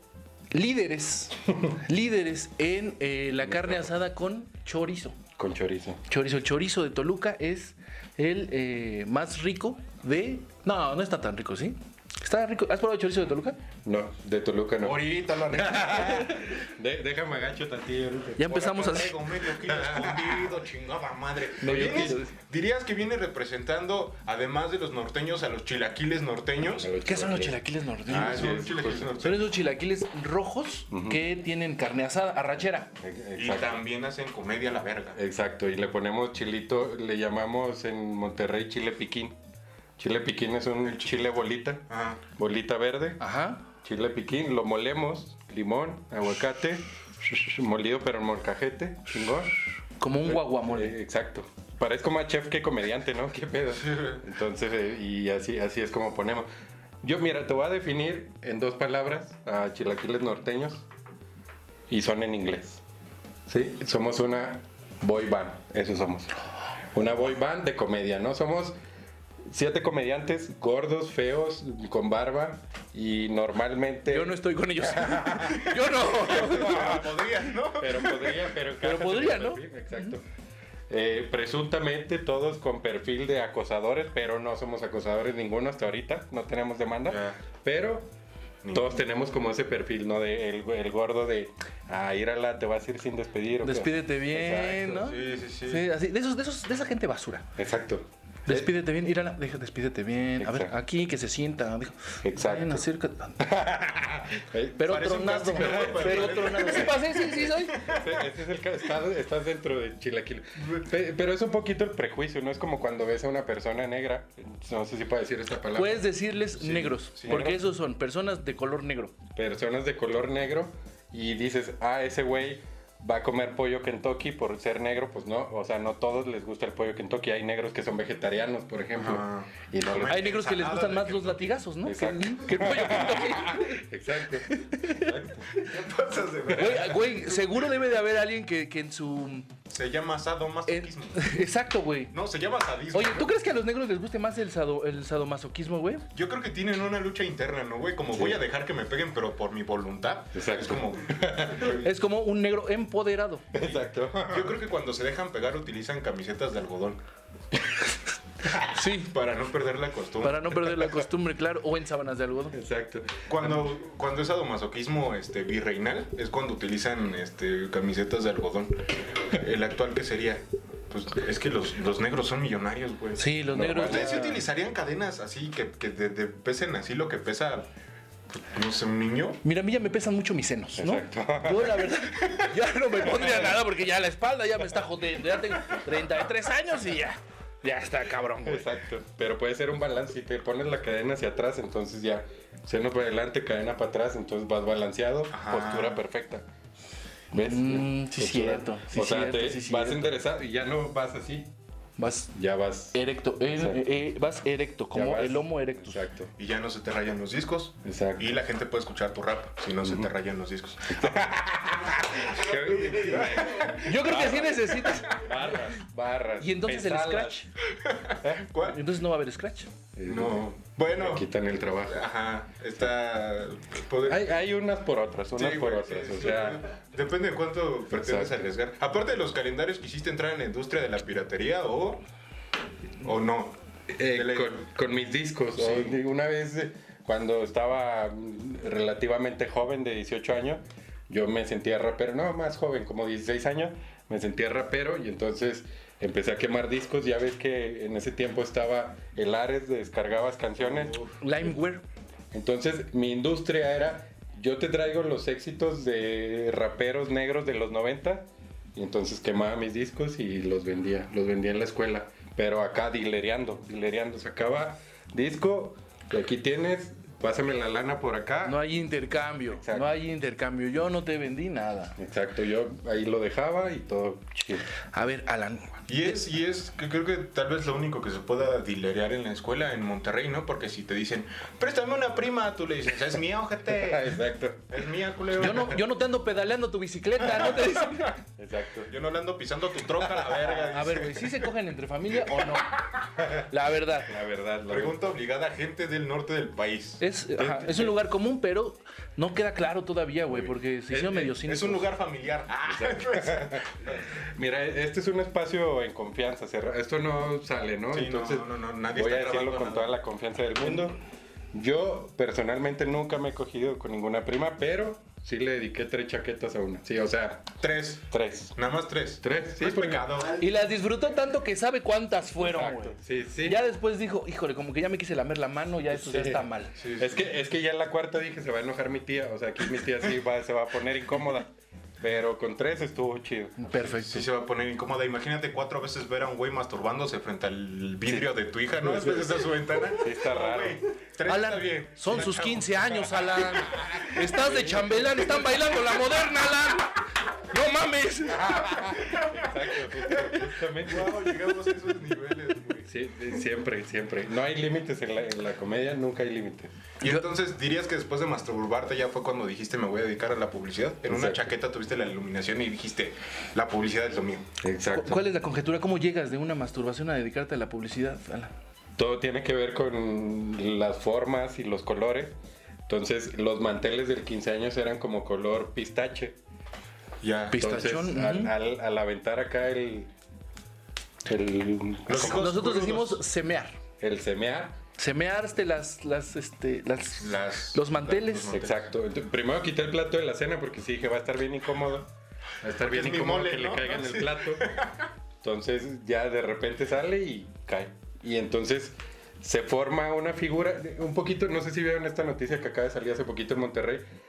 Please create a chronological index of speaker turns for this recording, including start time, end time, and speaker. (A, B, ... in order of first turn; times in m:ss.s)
0:00.5-0:05.2 A
0:03.4-0:03.9 B
0:05.4-0:06.0 B
0:06.1-0:13.6 A
0:13.8-0:19.0 B
0:14.8-0:16.4 C
0:18.4-0:19.2 A
0:18.5-0:26.9 C
0:19.7-0:20.4 B
0:21.6-0:22.3 A
0:21.6-0:22.2 B
0:26.7-0:29.2 B
0:27.0-0:32.9 A
0:28.1-0:29.5 C
0:30.9-0:31.3 B
0:33.0-0:33.8 B
0:33.4-0:35.2 C
0:35.1-0:39.4 B
0:40.0-0:43.2 B
0:40.9-0:41.2 C
0:41.9-0:42.2 C
0:43.2-0:43.7 A
0:43.8-0:49.6 B
0:50.0-0:51.0 A
0:50.2-0:56.5 B
0:53.8-0:54.2 C
0:57.0-1:00.9 B
1:01.9-1:02.8 B
1:03.5-1:06.3 B
1:06.9-1:08.8 B
1:09.5-1:20.2 B
1:14.1-1:17.0 A
1:16.1-1:18.4 C
1:18.8-1:20.2 A
1:20.9-1:28.1 B
1:27.0-1:27.4 C
1:28.6-1:29.0 C
1:28.7-1:35.1 B
1:33.6-1:37.5 A
1:35.0-1:35.9 C
1:37.6-1:38.7 B
1:38.4-1:43.5 A
1:40.4-1:40.7 B
1:42.2-1:42.8 B
1:43.4-1:44.9 B
1:44.7-1:47.8 A
1:44.8-1:48.2 C
1:45.6-1:46.2 B
1:47.8-1:57.8 B
1:55.7-1:59.1 A
1:57.1-1:57.4 C
1:59.4-2:10.2 B
2:09.0-2:11.6 C
2:10.1-2:15.2 A
2:11.8-2:15.4 B
2:15.2-2:17.7 C
2:16.5-2:19.5 A
2:19.7-2:21.3 C
2:20.7-2:22.1 A
2:22.1-2:23.3 C
2:22.9-2:26.0 A
2:26.1-2:31.8 C
2:28.1-2:28.4 B
2:30.3-2:31.8 B
2:31.7-2:33.4 A
2:33.5-2:34.6 B
2:33.6-2:37.0 C
2:38.7-2:39.1 A
2:39.0-2:40.6 C
2:40.2-2:42.6 A
2:42.5-2:43.3 B
2:43.3-2:57.7 C
2:53.2-2:54.3 A
2:53.5-2:54.4 B
2:58.3-2:59.4 C
2:59.4-3:08.6 A
3:00.8-3:01.9 B
3:03.0-3:03.5 B
3:08.4-3:16.5 B
3:15.3-3:16.0 C
3:17.3-3:21.5 B
3:17.4-3:20.1 A
3:22.0-3:22.3 A
3:22.3-3:23.8 B
3:22.9-3:26.0 A
3:24.9-3:26.3 B
3:26.4-3:31.4 C
3:27.8-3:28.3 B
3:29.8-3:30.1 B
3:30.9-3:37.4 B
3:32.2-3:33.9 C
3:33.8-3:35.2 A
3:36.4-3:37.5 A
3:37.8-3:38.8 C
3:38.2-3:38.5 B
3:38.6-3:39.7 A
3:40.0-3:42.1 B
3:40.0-3:41.2 C
3:41.8-3:44.2 C
3:44.0-3:46.6 B
3:45.3-3:52.0 C
3:47.9-3:48.4 B
3:53.0-3:53.6 C
3:53.9-4:11.0 B
3:54.1-3:54.6 C
3:55.6-3:55.9 C
4:10.6-4:11.2 C
4:11.2-4:11.8 A
4:12.3-4:28.6 B
4:28.4-4:32.0 A
4:29.6-4:30.0 B
4:32.0-4:34.6 B
4:34.9-4:35.8 A
4:35.9-4:44.2 C
4:43.7-4:44.7 B
4:44.7-4:45.8 C
4:45.4-4:48.2 A
4:48.4-4:48.9 B
4:48.9-4:51.4 C
4:50.0-4:50.4 B
4:50.7-4:52.8 A
4:52.4-4:53.0 C
4:53.2-4:53.4 B
4:53.5-4:54.1 A
4:54.0-4:55.1 B
4:54.7-4:57.9 C
4:57.0-5:01.8 A
5:00.3-5:01.3 B
5:01.3-5:04.0 C
5:02.6-5:03.6 B
5:04.3-5:11.0 B
5:07.9-5:09.9 C
5:11.5-5:18.6 B
5:17.6-5:20.4 C
5:19.2-5:20.2 B
5:20.3-5:26.7 A
5:22.4-5:23.6 B
5:25.9-5:31.5 B
5:26.8-5:27.2 C
5:32.0-5:33.7 B
5:33.6-5:34.3 A
5:33.8-5:44.1 C
5:38.0-5:40.8 B
5:41.2-5:48.7 A
5:43.7-5:45.3 B
5:48.3-5:51.4 B
5:48.9-5:52.9 C
5:52.8-5:56.7 B
5:57.0-6:04.4 C
6:01.1-6:01.5 B
6:04.6-6:05.3 B
6:04.9-6:08.5 A
6:09.0-6:12.4 B
6:12.9-6:16.4 B
6:17.2-6:17.6 C
6:17.5-6:18.5 A
6:17.5-6:20.1 B
6:21.2-6:22.6 B
6:22.1-6:23.2 C
6:22.2-6:23.8 A
6:24.0-6:24.8 B
6:25.0-6:28.6 A
6:27.2-6:28.8 C
6:28.5-6:32.1 B
6:32.6-6:34.7 B
6:32.8-6:35.1 C
6:35.4-6:44.1 B